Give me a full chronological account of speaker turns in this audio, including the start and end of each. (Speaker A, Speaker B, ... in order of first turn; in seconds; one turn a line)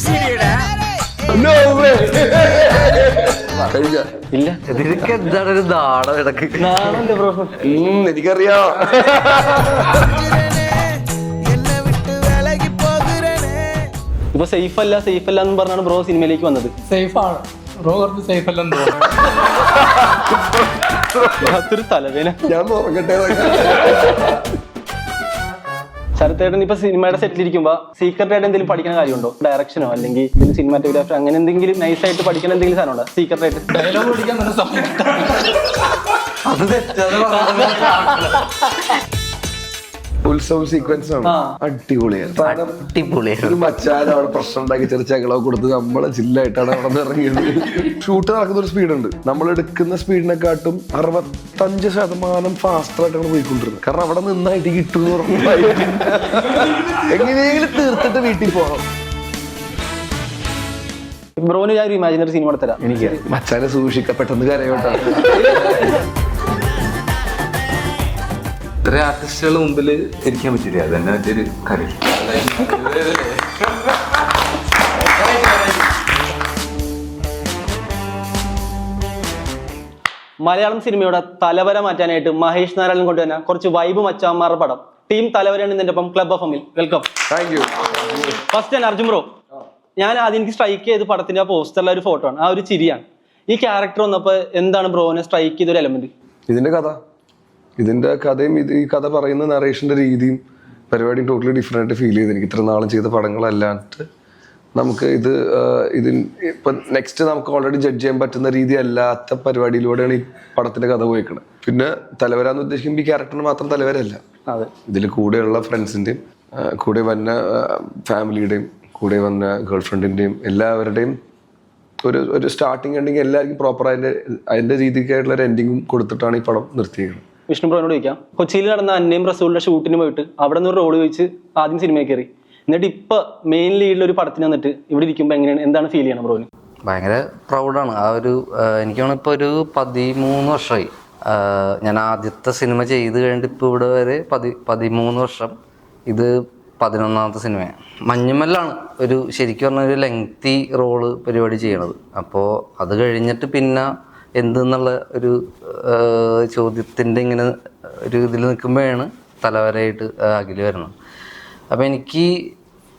Speaker A: 1.3-4.1
Speaker B: 4.3-4.6
Speaker C: 4.7-7.1
Speaker B: 6.6-7.6
Speaker A: 7.6-10.2
Speaker B: 14.3-16.7
Speaker D: 16.9-19.4
Speaker A: 20.3-21.5
Speaker B: 21.4-22.4
Speaker A: 22.4-24.4
Speaker B: 26.2-33.7
Speaker D: 33.7-35.8
Speaker C: 36.5-38.4
Speaker A: 40.2-42.8
Speaker B: 41.2-41.5
Speaker C: 42.4-43.7
Speaker A: 43.4-58.8
Speaker B: 61.4-63.2
Speaker A: 63.3-65.6
Speaker E: 68.8-73.9
Speaker E: 75.2-75.7
Speaker B: 80.4-87.1
Speaker A: 87.3-88.3
Speaker B: 88.4-89.3
Speaker B: 90.0-96.1
Speaker A: 96.5-97.0
Speaker A: 97.8-100.4
Speaker A: 100.9-104.0
Speaker A: 104.8-114.2
Speaker A: 114.9-121.2
Speaker A: 122.0-127.2
Speaker B: 127.5-136.5
Speaker C: 136.9-145.6
Speaker C: 146.1-160.9
Speaker C: 161.7-162.6